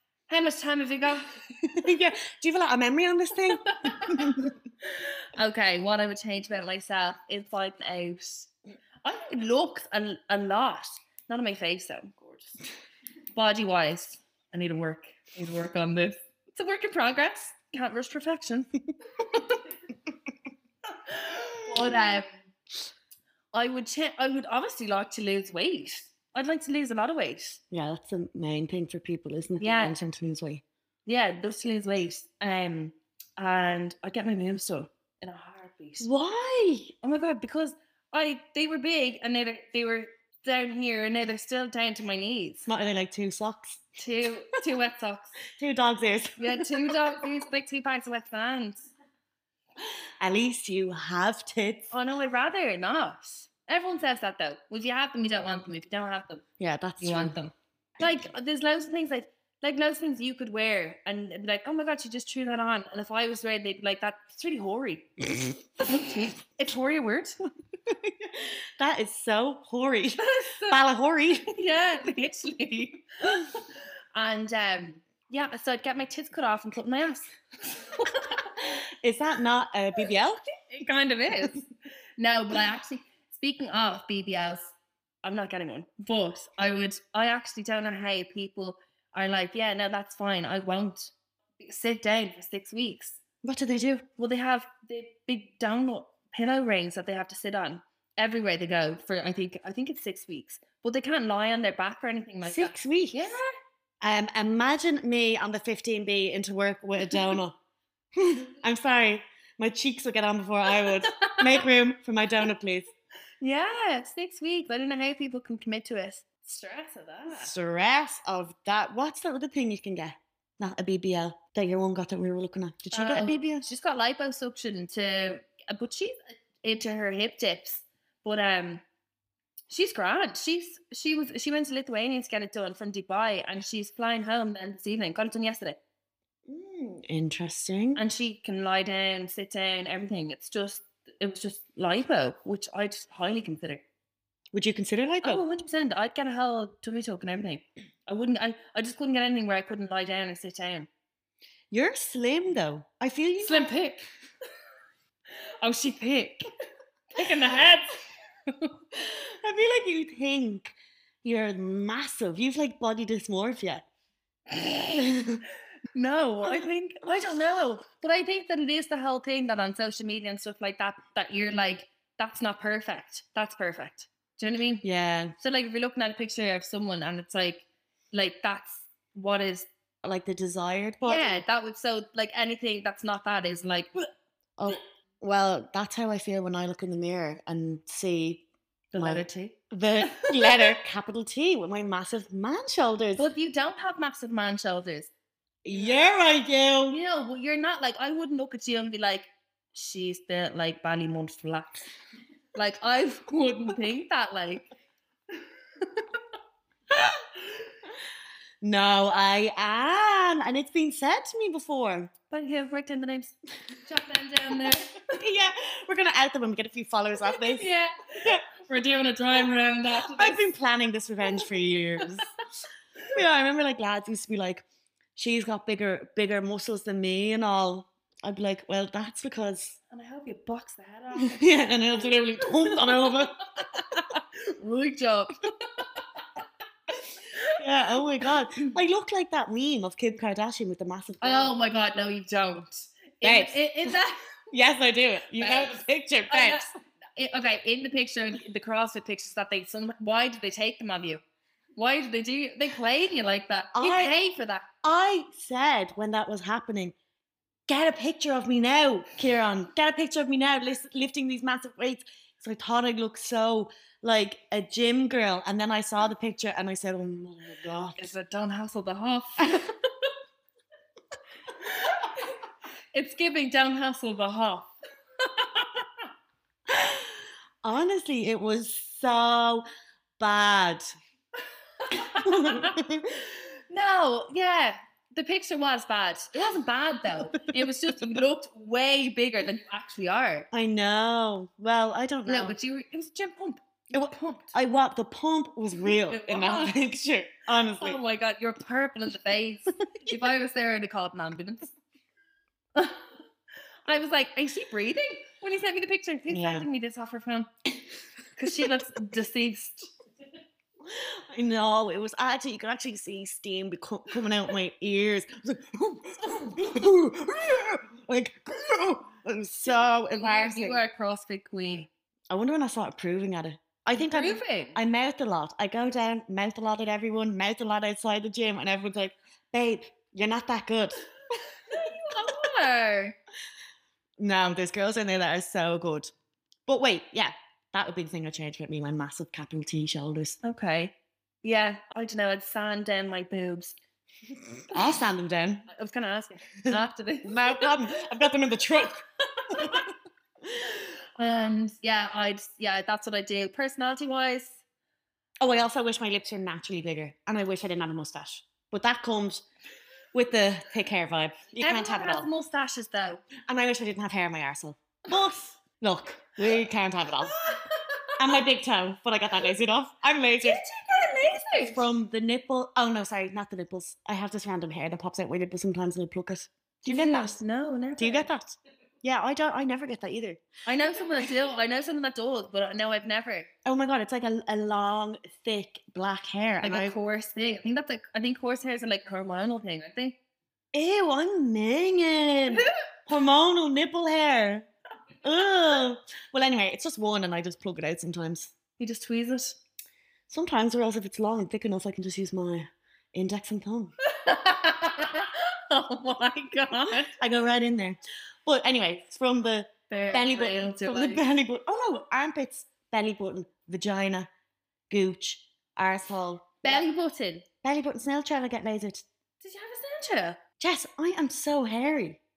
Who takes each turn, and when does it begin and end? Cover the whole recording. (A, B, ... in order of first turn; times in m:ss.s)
0:00.3-0:01.9 A
0:01.7-0:04.5 B
0:03.6-0:08.5 A
0:09.0-0:12.4 A
0:13.3-0:19.6 A
0:21.0-0:22.3 A
0:21.8-0:22.1 B
0:23.5-0:27.6 A
0:27.7-0:30.6 B
0:29.6-0:30.0 A
0:31.0-0:36.1 A
0:36.0-0:36.9 B
0:37.0-0:42.7 A
0:42.7-0:43.8 B
0:44.0-0:45.4 A
0:45.6-0:47.0 B
0:46.4-0:48.9 A
0:50.2-0:51.9 B
0:51.9-0:56.4 A
0:56.6-0:57.4 B
0:57.0-1:05.1 A
1:05.8-1:07.4 A
1:07.9-1:11.5 B
1:10.2-1:10.8 A
1:11.5-1:13.5 A
1:14.1-1:18.4 A
1:18.6-1:20.4 B
1:20.7-1:21.6 A
1:22.2-1:33.2 A
1:33.4-1:34.0 B
1:34.2-1:43.5 A
1:42.4-1:43.3 B
1:44.0-1:47.6 B
1:48.1-1:52.9 B
1:50.8-1:51.6 A
1:53.4-1:57.5 A
1:57.3-2:03.6 B
2:02.9-2:08.8 A
2:09.7-2:15.8 A
2:16.5-2:18.0 B
2:18.0-2:23.8 A
2:24.5-2:25.4 B
2:25.2-2:30.9 A
2:31.7-2:33.8 B
2:33.4-2:34.0 A
2:35.6-2:36.5 A
2:37.1-2:38.7 A
2:39.0-2:40.7 B
2:41.2-2:43.8 B
2:44.5-2:45.4 B
2:45.9-2:54.8 A
2:54.8-2:55.3 B
2:55.4-2:59.7 A
3:00.0-3:01.4 B
3:01.0-3:04.1 A
3:04.6-3:08.4 B
3:08.9-3:10.8 A
3:09.0-3:13.3 B
3:13.2-3:15.1 A
3:15.6-3:17.0 B
3:16.9-3:21.9 A
3:22.5-3:24.7 A
3:28.6-3:32.1 B
3:32.3-3:35.2 A
3:35.1-3:37.7 B
3:37.2-3:40.5 A
3:38.2-3:38.5 B
3:40.0-3:42.3 B
3:43.1-3:44.6 B
3:45.2-3:49.8 B
3:49.9-3:51.4 A
3:51.2-3:53.4 B
3:52.0-3:56.2 A
3:57.0-3:57.6 A
3:57.6-4:01.5 B
3:58.2-3:58.7 A
4:01.2-4:04.2 A
4:03.2-4:04.0 B
4:04.5-4:06.7 B
4:05.4-4:11.2 A
4:11.8-4:14.7 A
4:13.7-4:14.2 B
4:14.8-4:17.0 B
4:17.7-4:28.1 B
4:28.0-4:30.1 A
4:31.6-4:32.4 A
4:32.9-4:36.0 A
4:36.7-4:39.6 B
4:40.2-4:40.9 B
4:41.8-4:42.8 A
4:42.0-4:43.2 B
4:43.7-4:50.5 A
4:47.4-4:47.7 B
4:50.5-4:52.5 B
4:52.2-4:54.5 A
4:53.9-4:58.0 B
4:55.9-4:56.8 A
4:57.7-5:01.7 A
5:02.7-5:03.0 A
5:03.8-5:07.5 A
5:06.3-5:06.6 B
5:08.4-5:09.9 A
5:10.8-5:20.8 B
5:20.2-5:21.9 A
5:22.3-5:31.0 B
5:24.0-5:24.8 A
5:31.6-5:33.1 A
5:31.7-5:32.4 B
5:34.2-5:36.1 B
5:36.7-5:40.4 B
5:40.4-5:43.8 A
5:44.7-5:45.7 B
5:45.7-5:47.8 A
5:46.7-5:49.8 B
5:49.4-5:49.9 A
5:50.6-5:54.6 A
5:55.4-5:59.4 B
6:00.1-6:02.3 B
6:01.6-6:03.2 A
6:03.5-6:07.4 B
6:07.4-6:08.2 A
6:08.2-6:10.6 B
6:10.4-6:11.8 A
6:11.6-6:17.3 B
6:16.8-6:18.3 A
6:18.0-6:20.4 B
6:20.6-6:23.5 A
6:23.6-6:27.0 B
6:26.6-6:30.2 A
6:30.7-6:34.7 B
6:35.2-6:38.5 B
6:38.8-6:39.6 A
6:40.3-6:43.9 B
6:44.0-6:47.1 A
6:47.2-6:54.3 B
6:49.9-6:51.2 A
6:54.9-6:56.8 B
6:56.6-6:57.4 A
6:57.6-6:59.0 B
6:59.4-7:00.4 A
7:00.6-7:02.2 B